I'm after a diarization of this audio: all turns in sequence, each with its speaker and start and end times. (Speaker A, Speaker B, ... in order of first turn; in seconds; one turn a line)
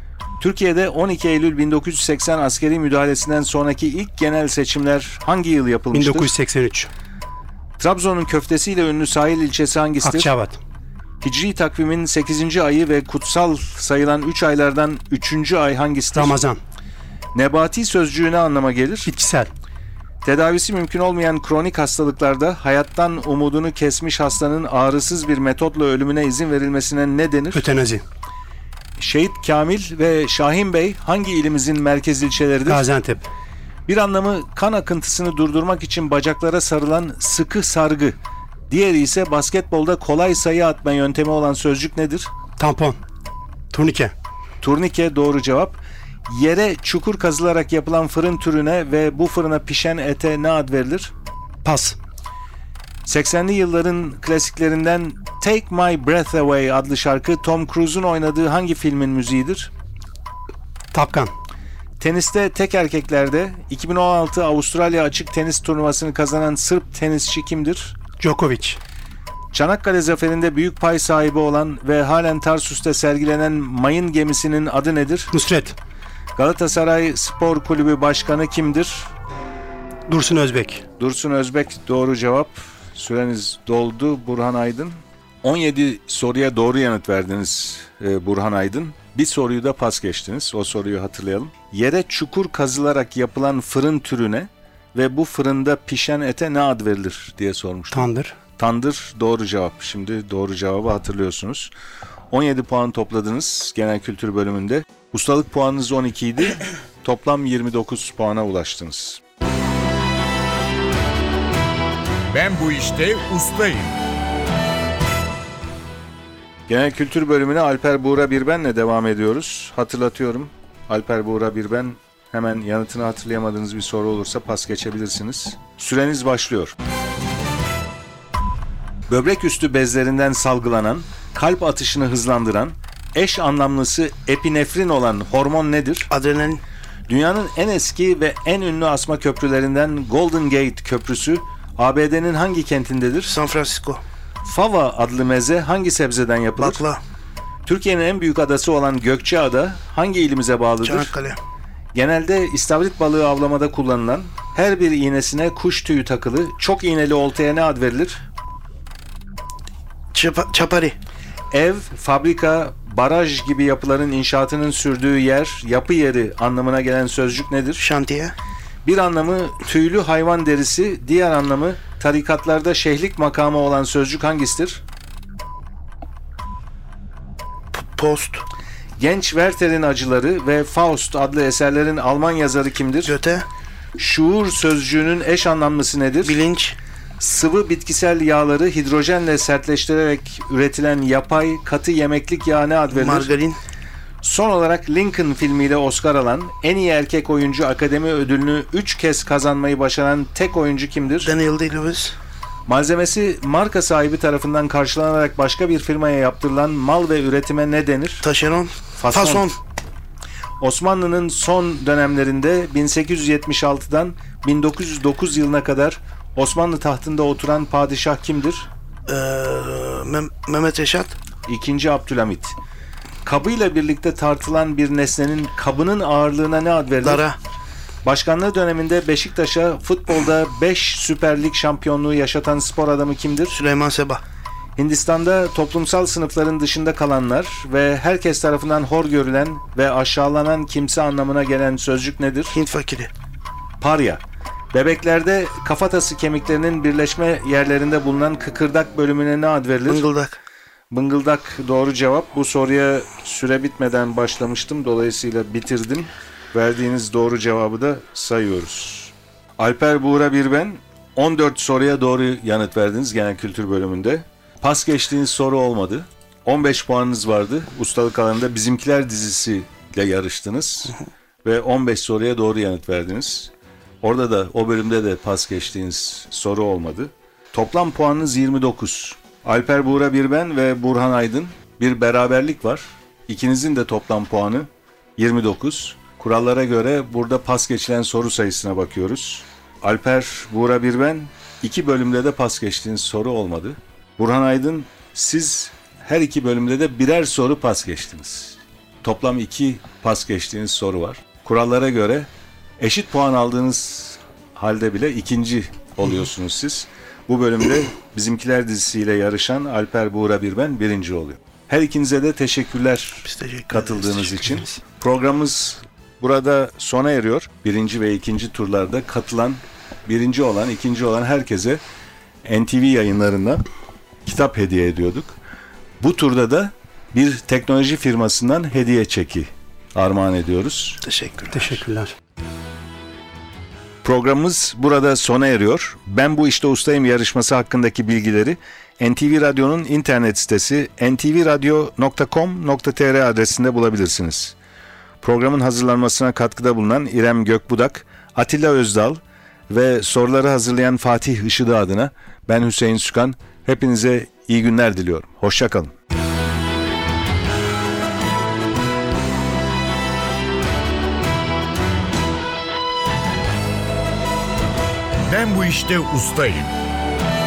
Speaker A: 0.4-6.3
Speaker B: 5.9-6.9
Speaker A: 7.8-10.3
Speaker B: 10.0-10.6
Speaker A: 11.2-16.4
Speaker B: 16.1-16.6
Speaker A: 17.3-19.1
Speaker B: 19.1-19.5
Speaker A: 20.2-27.6
Speaker B: 27.5-28.0
Speaker A: 29.0-32.9
Speaker B: 32.7-33.3
Speaker A: 33.9-38.2
Speaker A: 38.7-42.3
Speaker B: 42.6-43.0
Speaker B: 43.7-44.1
Speaker A: 44.6-51.1
Speaker B: 51.6-52.0
Speaker A: 53.0-59.7
Speaker B: 60.9-61.3
Speaker A: 62.0-68.0
Speaker B: 68.2-68.8
Speaker A: 69.5-75.3
Speaker B: 75.3-75.8
Speaker A: 76.4-79.1
Speaker B: 80.1-80.8
Speaker A: 81.0-101.7
Speaker B: 97.9-98.4
Speaker A: 102.3-109.2
Speaker C: 112.3-114.0
Speaker A: 116.7-126.8
Speaker A: 129.1-136.1
Speaker D: 136.1-136.6
Speaker A: 137.1-143.3
Speaker D: 143.3-144.0
Speaker A: 144.4-146.8
Speaker D: 146.6-147.0
Speaker A: 147.7-151.1
Speaker D: 150.8-151.4
Speaker A: 151.9-158.2
Speaker D: 160.1-161.0
Speaker A: 161.5-167.8
Speaker D: 167.8-168.3
Speaker A: 168.8-174.8
Speaker D: 177.7-178.4
Speaker A: 179.0-183.2
Speaker D: 183.1-183.5
Speaker A: 184.0-186.4
Speaker D: 186.2-186.8
Speaker A: 187.2-193.3
Speaker D: 192.9-193.6
Speaker A: 194.2-201.3
Speaker D: 201.2-202.2
Speaker A: 202.7-208.2
Speaker D: 208.2-209.6
Speaker A: 209.0-209.5
Speaker A: 210.6-218.7
Speaker D: 219.1-221.2
Speaker A: 221.5-222.6
Speaker A: 223.2-227.2
Speaker D: 227.0-227.4
Speaker A: 228.0-233.6
Speaker D: 233.5-234.2
Speaker A: 234.8-242.6
Speaker D: 242.5-243.1
Speaker A: 243.8-250.1
Speaker D: 249.9-250.4
Speaker A: 250.9-321.8
Speaker D: 313.3-314.4
Speaker A: 322.4-323.6
Speaker A: 324.2-325.4
Speaker A: 326.0-331.0
Speaker D: 331.0-331.7
Speaker B: 331.5-332.1
Speaker A: 334.0-344.6
Speaker A: 345.2-355.9
Speaker C: 365.3-366.7